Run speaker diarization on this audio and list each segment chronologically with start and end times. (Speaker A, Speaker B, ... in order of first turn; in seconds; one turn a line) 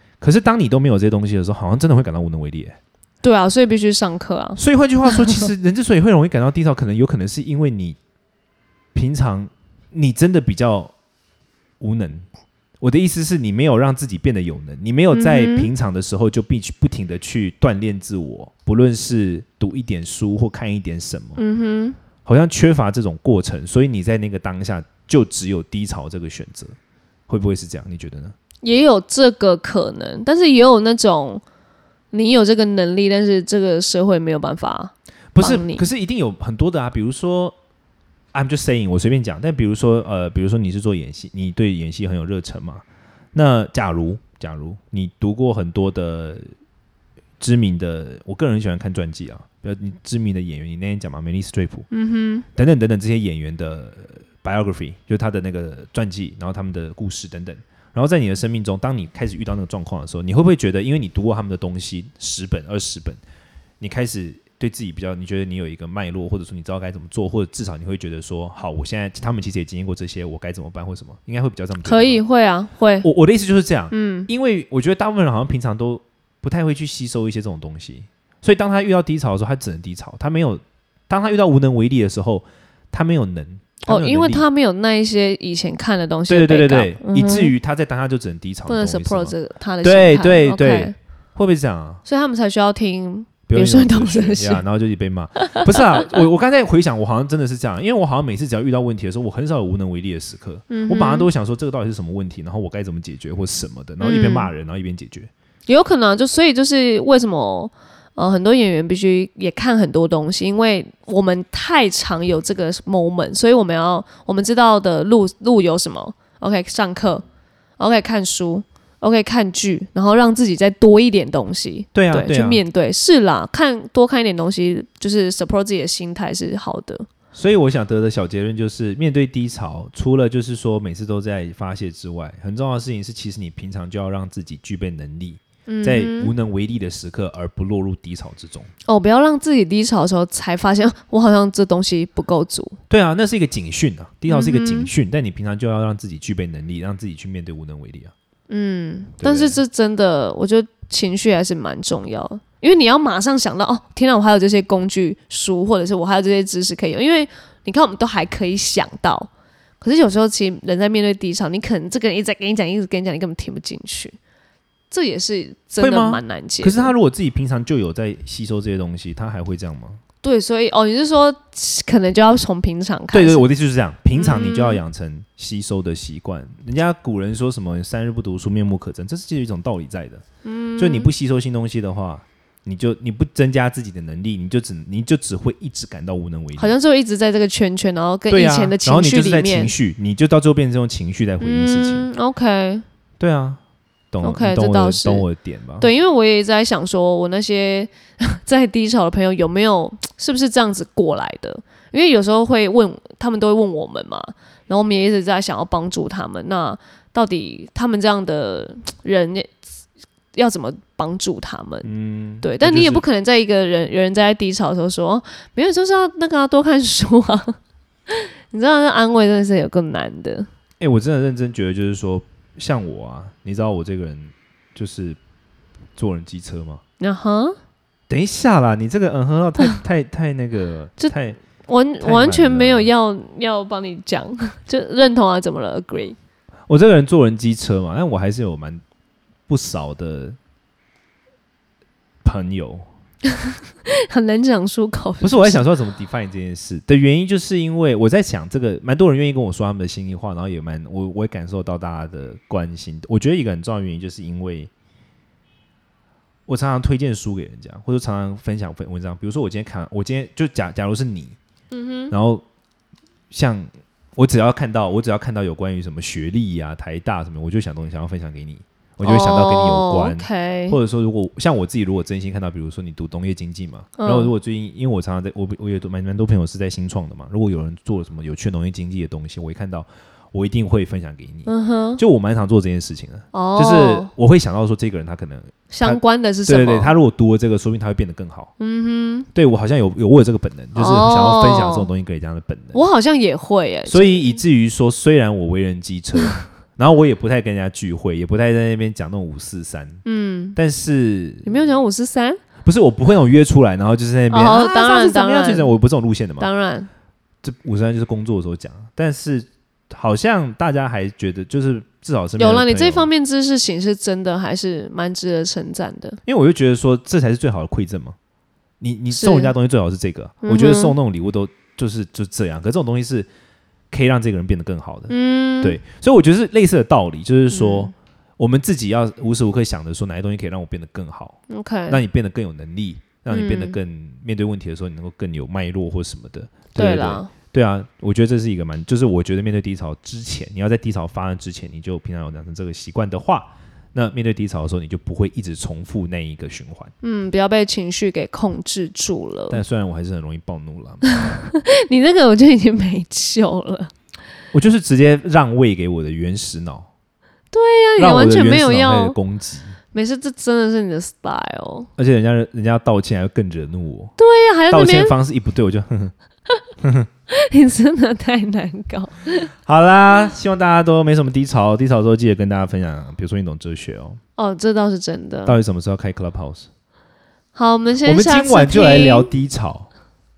Speaker A: 0.2-2.8
Speaker B: 3.2-5.5
Speaker A: 4.6-8.0
Speaker A: 8.9-10.9
Speaker A: 11.8-12.2
Speaker A: 12.8-21.4
Speaker B: 15.1-15.7
Speaker B: 21.4-22.0
Speaker A: 22.2-26.8
Speaker A: 27.3-28.3
Speaker B: 28.6-31.4
Speaker B: 32.1-35.9
Speaker A: 35.3-37.5
Speaker A: 38.3-42.8
Speaker A: 43.3-46.5
Speaker A: 47.4-51.9
Speaker B: 51.9-52.5
Speaker A: 52.5-63.2
Speaker A: 63.8-72.2
Speaker B: 71.8-73.1
Speaker A: 73.0-84.4
Speaker B: 73.9-74.3
Speaker B: 83.9-87.5
Speaker A: 86.3-92.0
Speaker B: 88.7-90.9
Speaker B: 92.0-94.6
Speaker A: 93.5-105.3
Speaker B: 95.4-96.1
Speaker B: 100.7-101.3
Speaker B: 104.0-104.5
Speaker B: 105.7-117.2
Speaker B: 117.8-127.1
Speaker A: 121.9-122.6
Speaker A: 127.3-138.7
Speaker B: 135.7-136.3
Speaker B: 138.9-142.8
Speaker A: 142.9-148.1
Speaker B: 144.3-144.9
Speaker B: 148.5-159.3
Speaker A: 149.2-149.6
Speaker B: 159.8-164.2
Speaker B: 164.9-166.9
Speaker A: 165.8-170.0
Speaker B: 170.2-173.4
Speaker A: 173.1-180.2
Speaker B: 174.1-174.8
Speaker B: 180.4-181.1
Speaker A: 180.8-186.7
Speaker B: 186.6-189.7
Speaker A: 188.3-192.1
Speaker B: 191.4-192.8
Speaker A: 193.2-193.6
Speaker A: 194.1-195.9
Speaker B: 194.2-195.2
Speaker B: 195.8-209.6
Speaker B: 210.3-211.9
Speaker A: 211.8-213.0
Speaker B: 212.4-217.6
Speaker B: 218.1-220.5
Speaker A: 220.8-225.2
Speaker A: 225.9-226.8
Speaker B: 227.0-227.6
Speaker A: 228.1-231.4
Speaker B: 231.0-236.2
Speaker A: 232.0-232.9
Speaker A: 236.7-238.8
Speaker A: 239.5-240.4
Speaker A: 242.2-242.8
Speaker B: 243.5-245.6
Speaker A: 245.2-254.7
Speaker A: 256.5-261.4
Speaker B: 261.7-262.1
Speaker A: 262.1-262.4
Speaker A: 263.3-288.5
Speaker B: 269.0-270.8
Speaker B: 274.0-274.3
Speaker B: 281.5-282.0
Speaker B: 283.3-284.1
Speaker B: 285.7-286.9
Speaker B: 288.6-289.3
Speaker A: 289.3-292.8
Speaker B: 290.8-291.9
Speaker B: 292.7-294.4
Speaker A: 293.9-300.0
Speaker B: 300.0-300.6
Speaker A: 300.6-301.6
Speaker B: 301.4-302.4
Speaker A: 302.6-306.5
Speaker B: 304.3-305.7
Speaker B: 306.4-306.9
Speaker A: 307.4-313.1
Speaker B: 312.4-316.2
Speaker A: 316.2-318.2
Speaker A: 318.8-323.3
Speaker B: 319.1-319.5
Speaker B: 320.4-320.9
Speaker A: 323.9-346.9
Speaker B: 325.1-325.8
Speaker B: 327.5-327.9
Speaker B: 331.5-332.0
Speaker B: 333.3-333.8
Speaker B: 336.8-337.3
Speaker B: 347.0-349.6
Speaker A: 349.5-351.1
Speaker B: 351.0-353.9
Speaker A: 354.5-356.9
Speaker B: 357.5-359.1
Speaker A: 358.0-359.8
Speaker B: 359.9-361.9
Speaker A: 361.9-364.1
Speaker B: 364.2-365.1
Speaker A: 364.7-366.1
Speaker A: 366.8-367.1
Speaker B: 367.3-369.5
Speaker A: 369.6-374.2
Speaker B: 374.4-375.6
Speaker A: 375.5-376.7
Speaker B: 377.5-379.3
Speaker A: 378.0-379.9